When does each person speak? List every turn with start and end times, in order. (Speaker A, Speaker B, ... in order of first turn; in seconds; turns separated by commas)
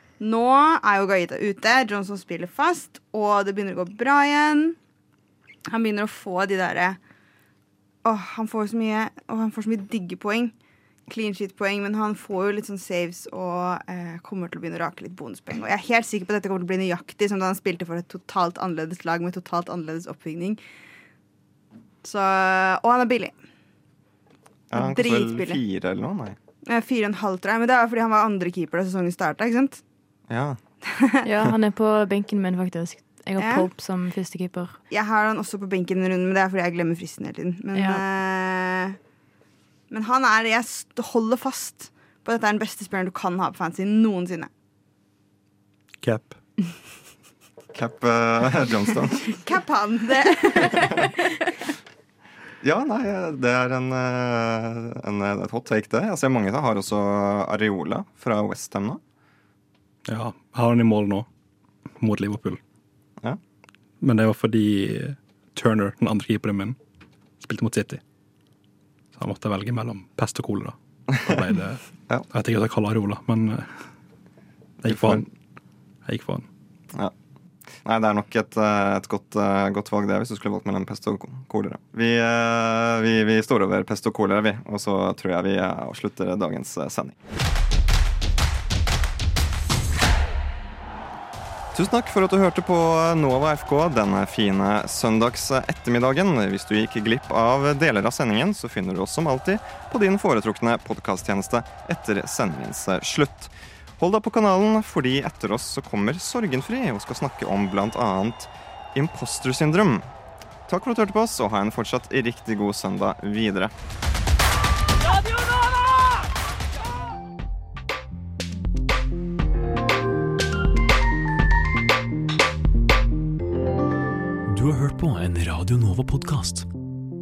Speaker A: 0.2-4.8, Speaker A: 5.7-7.0, Speaker A: 8.0-10.5, Speaker A: 11.1-20.6, Speaker A: 22.0-23.4, Speaker B: 24.7-26.4, Speaker A: 24.8-25.6, Speaker A: 26.7-29.8, Speaker B: 30.3-30.6, Speaker A: 30.9-31.2, Speaker C: 31.2-34.8, Speaker A: 33.4-33.7, Speaker A: 34.9-39.0, Speaker C: 37.7-38.0, Speaker A: 39.9-44.5, Speaker D: 46.0-46.4, Speaker B: 47.7-49.4, Speaker A: 49.3-51.1, Speaker B: 52.6-59.0, Speaker D: 60.1-61.2, Speaker D: 62.0-62.6, Speaker D: 64.0-66.8, Speaker D: 67.4-68.0, Speaker D: 69.1-73.7, Speaker D: 74.8-75.3, Speaker B: 74.8-75.3, Speaker D: 76.0-76.5, Speaker B: 77.8-87.2, Speaker B: 91.7-110.1, Speaker B: 110.7-113.7, Speaker E: 124.5-126.7